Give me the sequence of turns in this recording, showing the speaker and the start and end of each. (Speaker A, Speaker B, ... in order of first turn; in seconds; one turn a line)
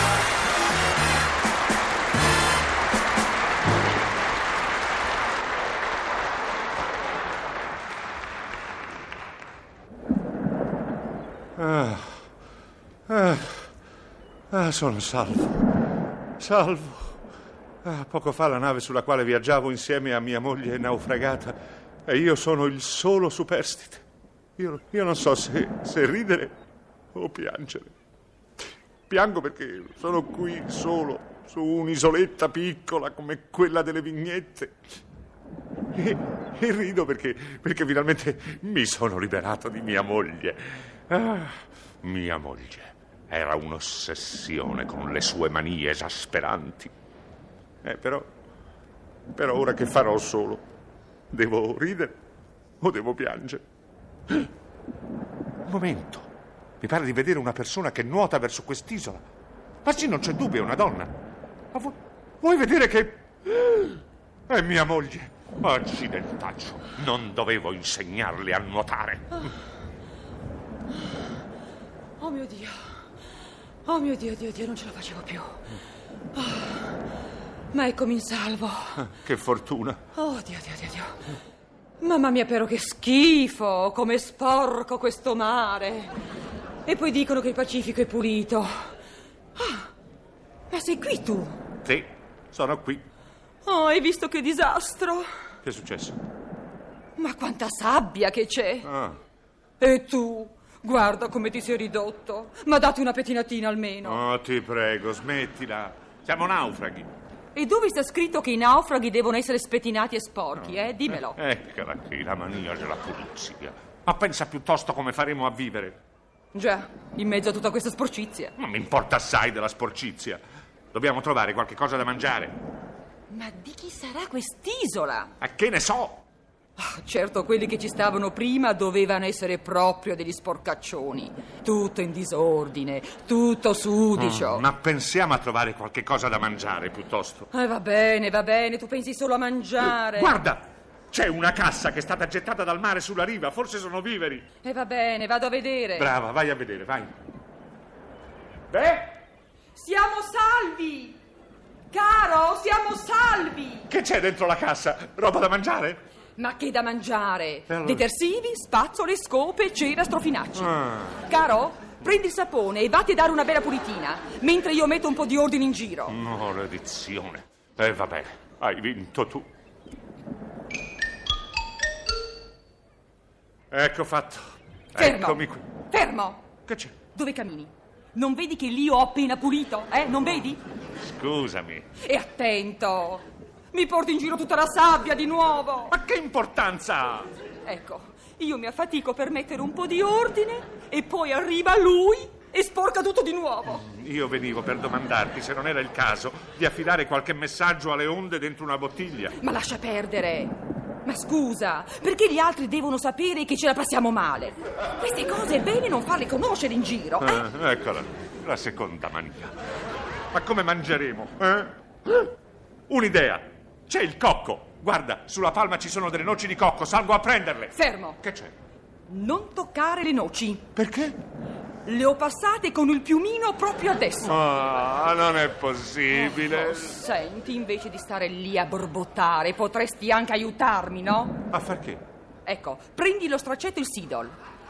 Speaker A: 11.6-12.2
Speaker A: 13.1-13.7
Speaker A: 14.5-15.7
Speaker A: 16.4-17.2
Speaker A: 17.8-24.0
Speaker A: 24.6-26.6
Speaker A: 27.1-27.9
Speaker A: 29.1-34.8
Speaker A: 35.9-46.9
Speaker A: 47.8-48.3
Speaker A: 49.4-50.6
Speaker A: 51.3-52.2
Speaker A: 52.8-53.6
Speaker A: 55.6-59.2
Speaker A: 59.8-61.2
Speaker A: 61.7-69.5
Speaker B: 72.2-72.9
Speaker B: 73.8-75.7
Speaker B: 76.3-77.0
Speaker B: 77.7-79.0
Speaker A: 79.0-80.0
Speaker B: 80.2-81.2
Speaker B: 82.0-86.1
Speaker B: 86.8-88.9
Speaker B: 89.6-89.9
Speaker B: 90.7-91.6
Speaker A: 91.8-93.0
Speaker B: 93.6-95.3
Speaker A: 95.6-96.2
Speaker B: 97.2-98.9
Speaker A: 98.8-99.2
Speaker B: 99.8-104.2
Speaker A: 104.0-107.1
Speaker B: 107.5-111.4
Speaker A: 110.6-116.0
Speaker B: 116.5-118.5
Speaker A: 118.6-120.4
Speaker A: 120.9-122.6
Speaker B: 123.3-125.3
Speaker A: 125.4-126.2
Speaker B: 126.8-134.7
Speaker A: 134.2-137.5
Speaker B: 137.5-140.4
Speaker A: 139.8-144.5
Speaker B: 144.6-146.1
Speaker A: 146.0-147.1
Speaker A: 148.7-149.2
Speaker B: 149.8-151.2
Speaker B: 151.9-153.9
Speaker A: 153.9-156.0
Speaker B: 156.4-166.2
Speaker A: 157.7-158.1
Speaker A: 160.6-161.3
Speaker A: 166.1-169.5
Speaker A: 173.7-175.6
Speaker B: 175.0-176.5
Speaker A: 176.7-177.0
Speaker B: 177.1-180.6
Speaker A: 181.0-181.9
Speaker B: 182.0-186.0
Speaker A: 185.9-187.3
Speaker B: 187.6-193.8
Speaker A: 193.7-199.4
Speaker B: 199.4-207.5
Speaker A: 207.2-209.6
Speaker A: 210.3-212.3
Speaker A: 212.9-218.5
Speaker B: 217.7-218.2
Speaker B: 219.1-220.7
Speaker A: 220.8-221.2
Speaker B: 221.8-224.4
Speaker A: 224.2-227.0
Speaker B: 226.1-231.4
Speaker A: 231.5-232.0
Speaker B: 232.4-234.3